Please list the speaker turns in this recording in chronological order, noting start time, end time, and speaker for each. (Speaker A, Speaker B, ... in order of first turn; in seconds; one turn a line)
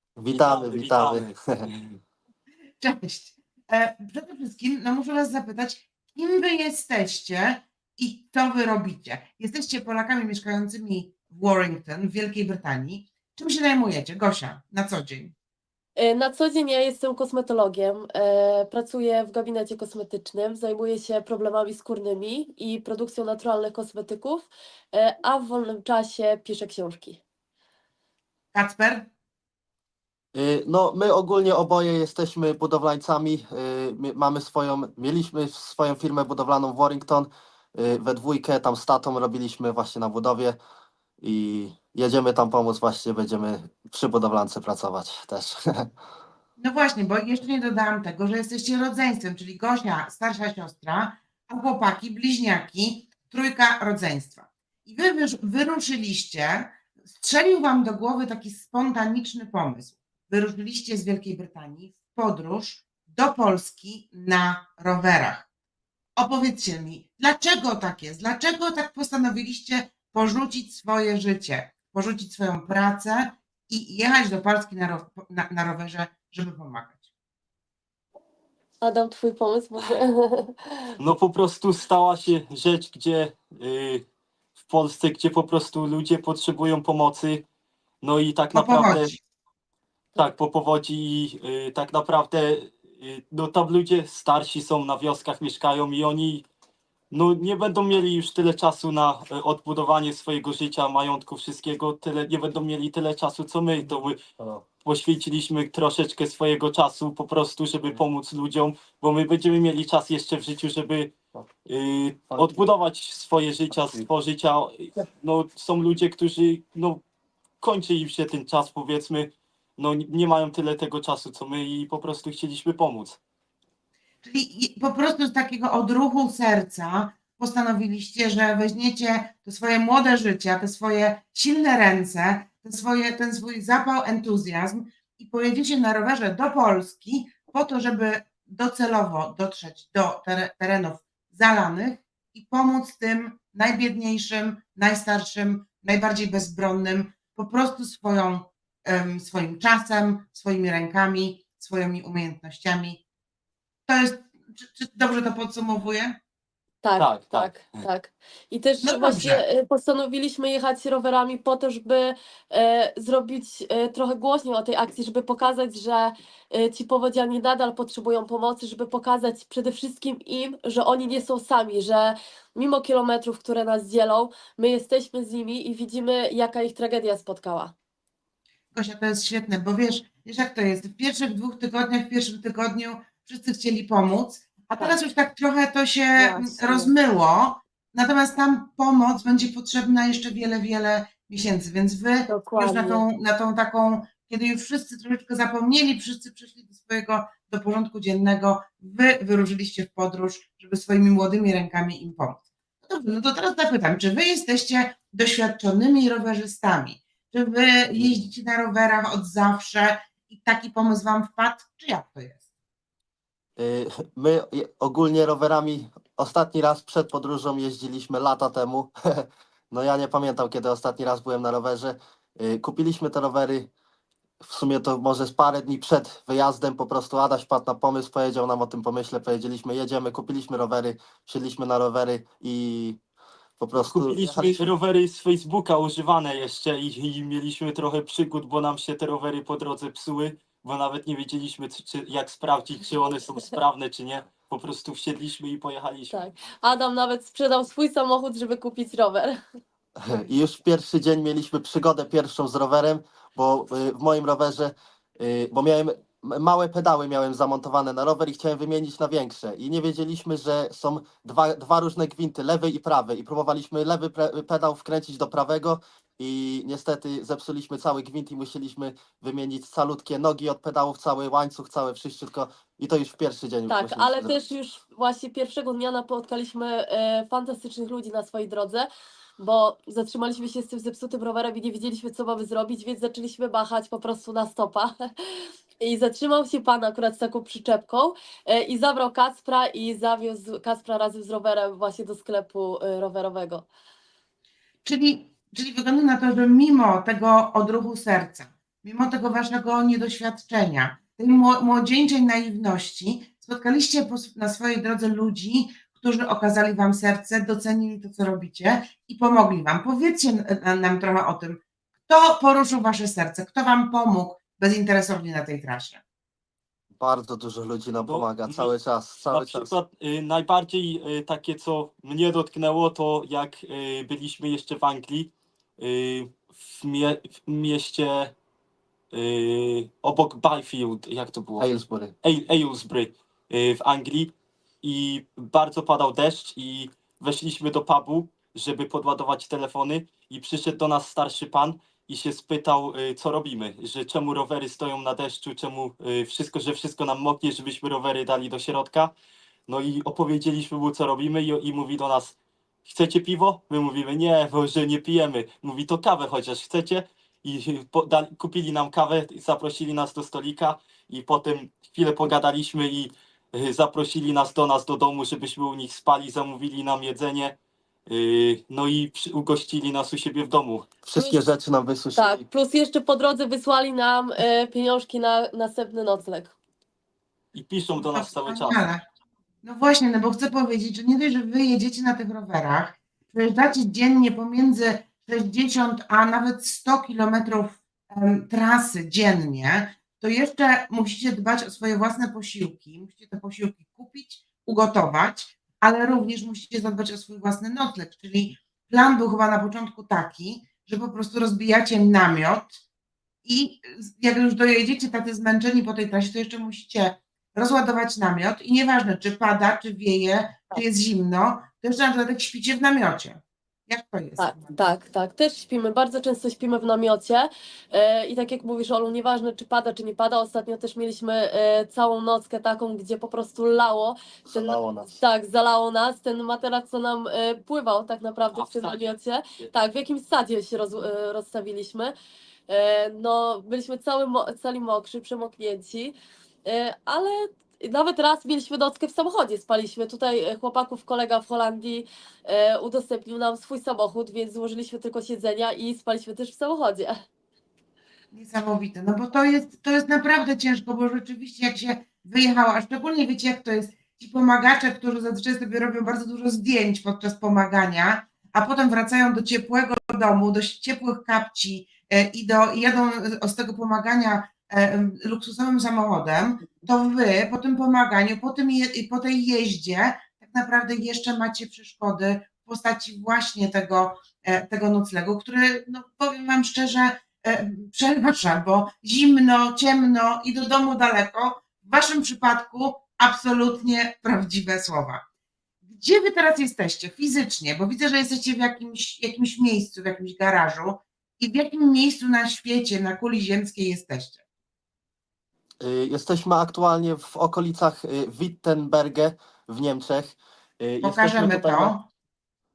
Speaker A: 0.2-1.4
Speaker B: 0.3-2.0
Speaker C: 2.8-15.3
Speaker D: 16.0-27.2
Speaker C: 28.5-29.1
Speaker A: 30.3-40.6
Speaker A: 41.2-45.9
Speaker C: 46.6-65.5
Speaker C: 66.2-77.0
Speaker D: 78.8-80.9
Speaker B: 81.0-84.0
Speaker B: 84.7-87.4
Speaker B: 88.0-89.1
Speaker C: 88.5-89.2
Speaker B: 90.2-96.4
Speaker B: 97.1-104.2
Speaker A: 104.4-104.7
Speaker B: 104.8-111.1
Speaker B: 111.7-117.0
Speaker A: 112.3-112.6
Speaker B: 117.6-123.2
Speaker C: 124.2-153.0
Speaker C: 153.9-156.2
Speaker D: 156.8-177.7
Speaker B: 157.0-157.8
Speaker C: 158.8-159.4
Speaker C: 178.7-212.4
Speaker D: 186.1-186.9
Speaker D: 192.3-193.0
Speaker A: 213.6-223.7
Speaker A: 224.4-233.0
Speaker A: 233.6-234.7
Speaker B: 233.8-246.2
Speaker D: 246.1-249.4
Speaker A: 250.0-274.3
Speaker D: 273.7-278.9
Speaker D: 279.4-293.7
Speaker C: 294.8-316.0
Speaker A: 317.0-319.7
Speaker B: 318.0-318.7
Speaker B: 319.3-328.3
Speaker B: 329.1-331.7
Speaker A: 331.6-332.1
Speaker B: 332.2-349.1
Speaker B: 349.7-367.6
Speaker B: 368.1-370.9
Speaker A: 371.0-372.4
Speaker D: 371.1-371.4
Speaker D: 372.1-376.5
Speaker B: 377.5-378.8
Speaker C: 378.0-379.0
Speaker C: 379.6-402.8
Speaker C: 403.4-414.8
Speaker D: 414.4-432.1
Speaker A: 424.4-425.1
Speaker B: 428.5-429.1
Speaker D: 432.7-436.1
Speaker D: 436.6-447.1
Speaker C: 448.3-485.2
Speaker C: 485.8-494.4
Speaker A: 495.8-501.9
Speaker C: 501.0-502.0